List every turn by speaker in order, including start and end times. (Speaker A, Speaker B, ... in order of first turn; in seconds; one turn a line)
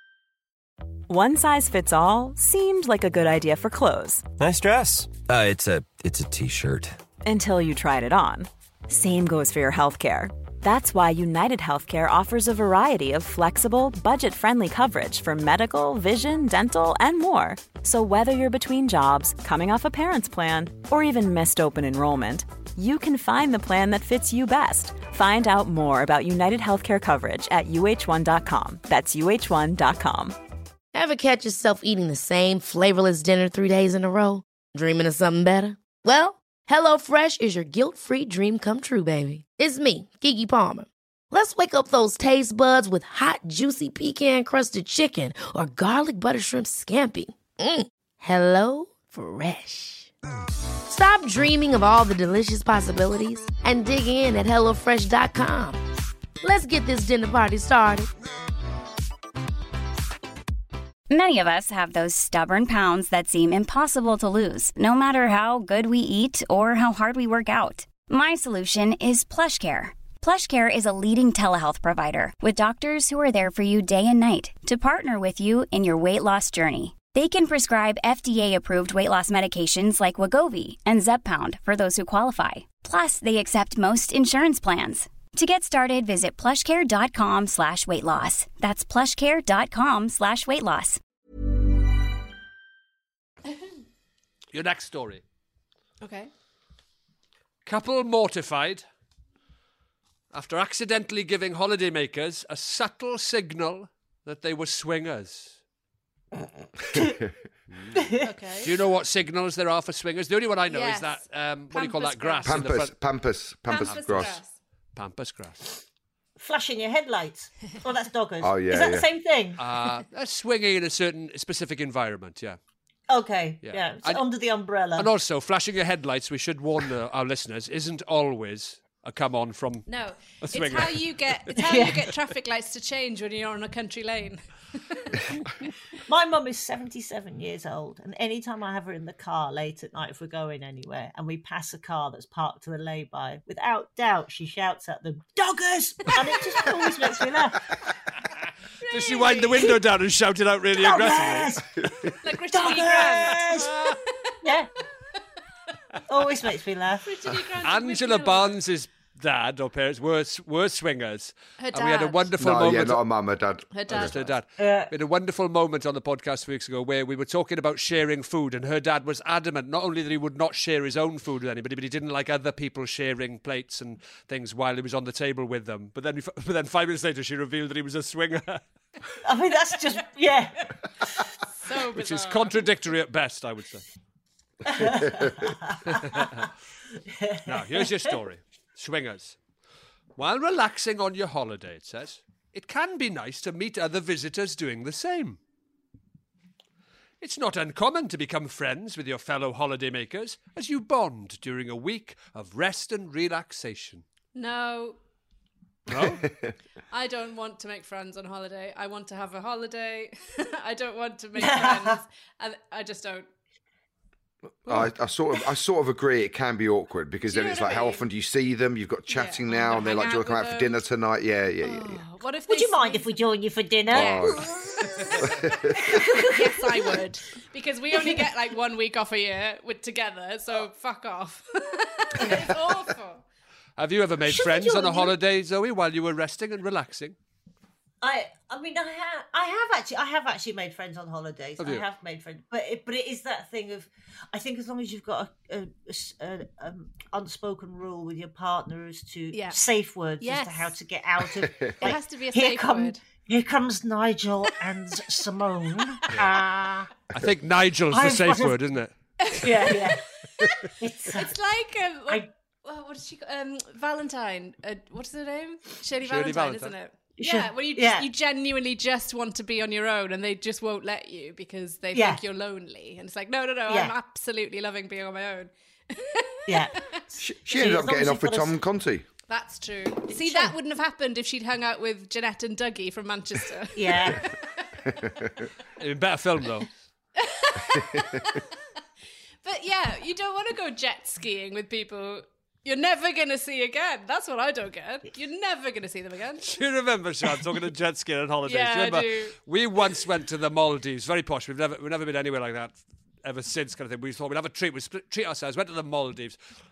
Speaker A: 1.1-4.2
Speaker B: 4.4-7.0
Speaker A: 7.2-30.4
Speaker C: 30.9-50.1
Speaker C: 50.9-55.8
Speaker C: 56.4-58.1
Speaker D: 61.1-91.0
Speaker E: 94.5-95.2
Speaker F: 96.0-96.3
Speaker E: 97.6-98.8
Speaker E: 100.3-105.6
Speaker E: 107.7-112.9
Speaker G: 108.0-108.2
Speaker F: 108.2-108.7
Speaker F: 110.7-112.7
Speaker H: 112.4-114.4
Speaker F: 113.7-114.5
Speaker E: 113.7-114.3
Speaker E: 115.0-115.8
Speaker G: 116.4-119.6
Speaker H: 118.4-119.0
Speaker E: 119.6-122.6
Speaker G: 123.1-125.1
Speaker E: 123.6-124.2
Speaker E: 125.0-131.5
Speaker F: 129.9-135.2
Speaker G: 131.6-132.1
Speaker G: 136.1-147.7
Speaker F: 148.8-149.7
Speaker E: 148.9-151.6
Speaker G: 150.8-151.7
Speaker F: 152.2-154.3
Speaker G: 152.5-153.7
Speaker G: 154.4-154.7
Speaker G: 156.1-157.1
Speaker F: 157.0-158.6
Speaker E: 157.6-163.0
Speaker F: 161.6-162.3
Speaker H: 162.4-164.1
Speaker F: 163.7-164.3
Speaker E: 163.9-178.6
Speaker G: 164.6-164.9
Speaker G: 179.2-180.7
Speaker F: 181.5-182.6
Speaker E: 181.9-183.8
Speaker G: 184.7-186.2
Speaker H: 184.8-185.5
Speaker G: 187.1-188.1
Speaker E: 187.4-189.4
Speaker E: 190.2-195.4
Speaker E: 197.2-204.0
Speaker F: 204.3-205.0
Speaker E: 205.9-206.2
Speaker F: 206.9-213.3
Speaker G: 211.4-212.0
Speaker H: 214.7-222.0
Speaker F: 217.3-218.0
Speaker F: 219.1-220.8
Speaker F: 221.6-223.2
Speaker G: 222.5-224.8
Speaker H: 223.9-224.5
Speaker F: 223.9-224.4
Speaker F: 225.0-233.2
Speaker H: 225.2-225.8
Speaker G: 225.8-226.9
Speaker G: 227.9-228.2
Speaker E: 233.8-237.2
Speaker G: 234.2-235.1
Speaker G: 238.0-256.9
Speaker E: 241.6-241.8
Speaker F: 249.3-249.6
Speaker F: 250.2-250.7
Speaker F: 251.8-253.0
Speaker E: 257.1-258.9
Speaker G: 257.9-258.6
Speaker F: 259.2-276.9
Speaker G: 259.4-260.0
Speaker G: 260.8-261.3
Speaker E: 266.0-266.7
Speaker G: 267.2-268.1
Speaker G: 271.9-272.2
Speaker G: 273.7-273.9
Speaker G: 276.5-278.6
Speaker H: 277.2-279.1
Speaker F: 279.3-285.3
Speaker G: 280.1-280.5
Speaker G: 283.8-284.2
Speaker E: 285.8-286.7
Speaker F: 287.2-288.4
Speaker F: 289.4-296.5
Speaker E: 296.4-306.4
Speaker F: 298.4-299.3